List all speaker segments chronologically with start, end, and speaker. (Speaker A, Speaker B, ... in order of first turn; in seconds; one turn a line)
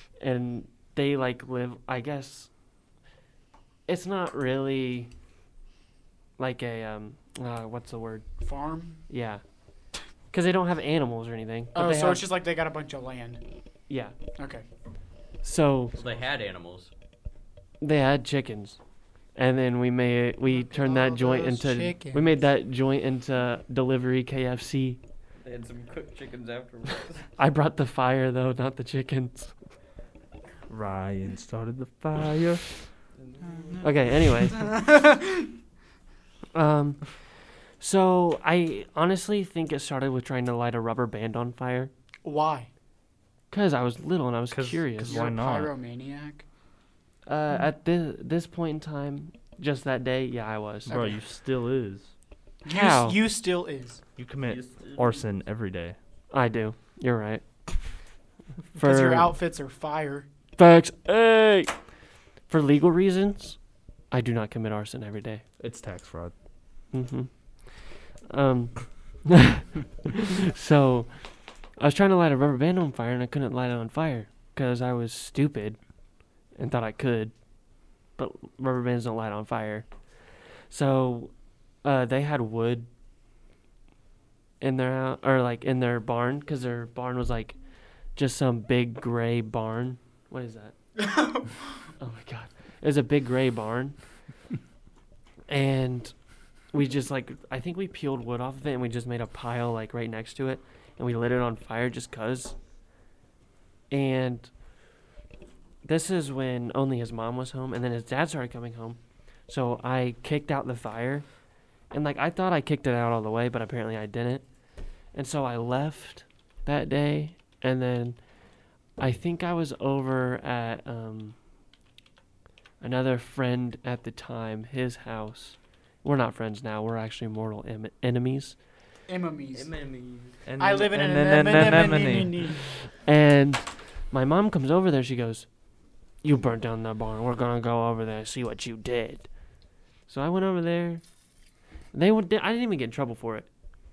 Speaker A: 0.2-2.5
Speaker A: 3.9-5.1
Speaker A: 6.4-8.2
Speaker B: 8.4-9.0
Speaker A: 9.1-9.4
Speaker A: 10.3-12.3
Speaker B: 11.7-13.4
Speaker A: 13.9-14.1
Speaker B: 14.4-14.6
Speaker A: 15.4-15.9
Speaker C: 15.9-16.9
Speaker A: 17.8-18.8
Speaker A: 19.3-25.0
Speaker B: 20.5-22.3
Speaker C: 25.4-27.3
Speaker A: 27.4-29.5
Speaker D: 30.7-32.7
Speaker C: 33.2-33.8
Speaker A: 33.8-34.7
Speaker B: 34.5-35.5
Speaker A: 36.5-41.9
Speaker B: 42.2-42.7
Speaker A: 43.5-45.2
Speaker D: 44.5-45.7
Speaker B: 45.0-46.4
Speaker A: 47.2-50.9
Speaker D: 50.9-52.1
Speaker B: 50.9-51.1
Speaker B: 52.6-54.0
Speaker A: 52.6-53.2
Speaker D: 54.2-56.0
Speaker C: 54.5-55.2
Speaker A: 56.3-57.4
Speaker A: 58.8-59.4
Speaker B: 58.8-60.2
Speaker A: 60.5-61.9
Speaker A: 62.5-63.6
Speaker A: 64.1-65.4
Speaker D: 65.6-66.3
Speaker A: 66.9-71.2
Speaker A: 71.8-75.8
Speaker A: 76.5-77.3
Speaker A: 78.2-79.9
Speaker A: 80.7-81.3
Speaker A: 81.8-82.9
Speaker A: 84.6-87.6
Speaker A: 88.1-90.7
Speaker B: 91.0-91.5
Speaker A: 92.0-94.0
Speaker A: 95.5-96.1
Speaker A: 96.7-102.5
Speaker A: 103.9-104.5
Speaker A: 105.8-111.3
Speaker A: 111.9-114.4
Speaker A: 115.1-118.2
Speaker A: 119.0-121.3
Speaker A: 122.8-128.6
Speaker B: 129.1-129.7
Speaker C: 129.5-130.4
Speaker D: 130.4-132.3
Speaker B: 130.6-132.6
Speaker A: 131.5-132.0
Speaker A: 132.9-135.5
Speaker A: 136.2-139.3
Speaker A: 140.1-141.0
Speaker A: 141.9-143.5